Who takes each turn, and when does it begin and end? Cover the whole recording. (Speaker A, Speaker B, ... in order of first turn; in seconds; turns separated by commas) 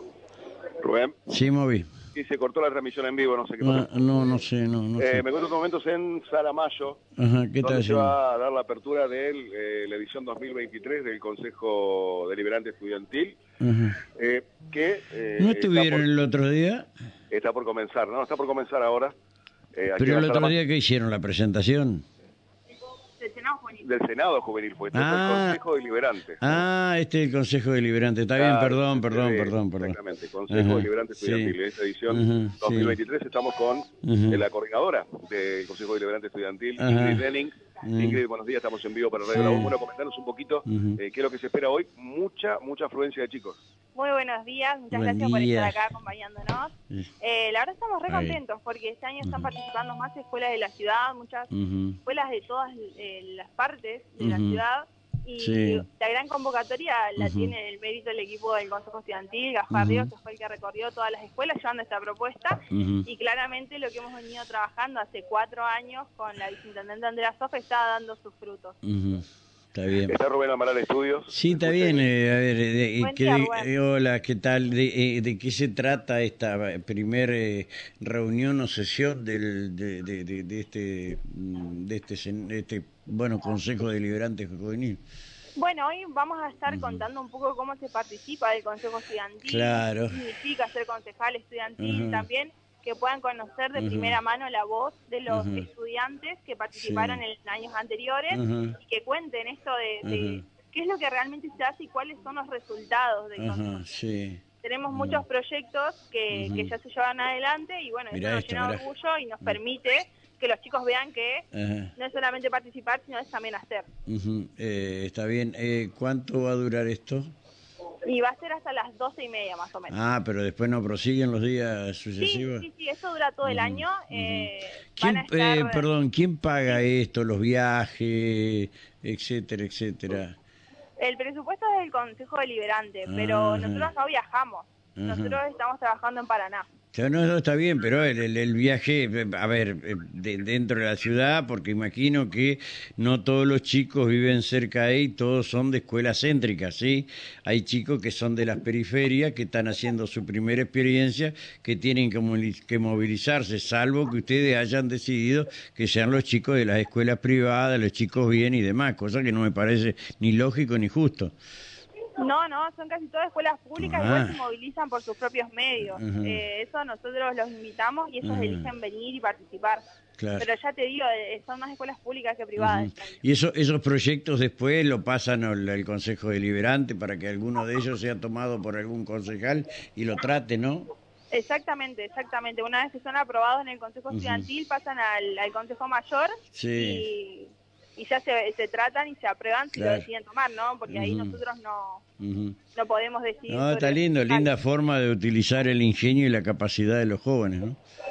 Speaker A: 0.8-1.2, Speaker B: 1.3-1.9, Speaker A: 2.1-3.9, Speaker B: 3.6-5.2, Speaker A: 5.0-7.0, Speaker B: 7.2-8.1, Speaker A: 7.6-13.4, Speaker B: 13.6-14.0, Speaker A: 14.1-16.1, Speaker B: 15.4-16.9, Speaker A: 17.3-19.1, Speaker A: 19.7-20.6, Speaker B: 20.0-22.0, Speaker C: 23.2-23.8, Speaker A: 23.8-26.6, Speaker B: 24.9-25.6, Speaker B: 26.4-29.9, Speaker A: 28.4-43.6, Speaker B: 30.5-31.5, Speaker B: 32.1-33.0, Speaker B: 34.0-34.4, Speaker B: 36.8-37.2, Speaker B: 37.8-38.2, Speaker B: 39.3-39.7, Speaker B: 40.6-41.0, Speaker C: 43.9-51.5, Speaker B: 44.9-45.9, Speaker B: 48.1-48.4, Speaker B: 49.2-49.5, Speaker B: 51.5-52.0, Speaker C: 52.0-68.8, Speaker B: 54.2-54.6, Speaker B: 55.4-55.9, Speaker B: 57.2-57.5, Speaker B: 59.7-60.1, Speaker B: 62.7-63.1, Speaker B: 68.8-70.1, Speaker A: 70.0-72.1, Speaker B: 71.3-85.0, Speaker C: 73.0-73.7, Speaker C: 85.5-104.0, Speaker B: 86.7-87.0, Speaker B: 89.4-90.2, Speaker B: 91.8-92.3, Speaker B: 93.7-94.2, Speaker B: 95.3-95.7, Speaker B: 96.8-97.2, Speaker B: 98.3-98.8, Speaker B: 100.0-100.4, Speaker B: 103.4-105.2, Speaker C: 104.6-113.9, Speaker B: 106.3-106.8, Speaker B: 108.1-108.8, Speaker B: 111.5-111.9, Speaker B: 114.1-117.3, Speaker C: 118.0-119.9, Speaker B: 119.9-122.7, Speaker C: 122.2-125.9, Speaker B: 123.4-130.3, Speaker C: 131.0-136.7, Speaker B: 133.1-133.9, Speaker B: 134.9-135.4, Speaker B: 136.9-161.3, Speaker C: 162.2-169.8, Speaker B: 163.8-164.4, Speaker B: 165.8-166.4, Speaker B: 168.2-168.7, Speaker B: 170.2-170.5, Speaker C: 170.4-173.2, Speaker B: 172.6-180.9, Speaker C: 181.3-192.0, Speaker B: 184.1-184.5, Speaker B: 186.5-187.1, Speaker B: 189.7-190.1, Speaker B: 190.9-191.4, Speaker B: 192.2-192.6, Speaker C: 192.7-194.5, Speaker B: 193.5-197.8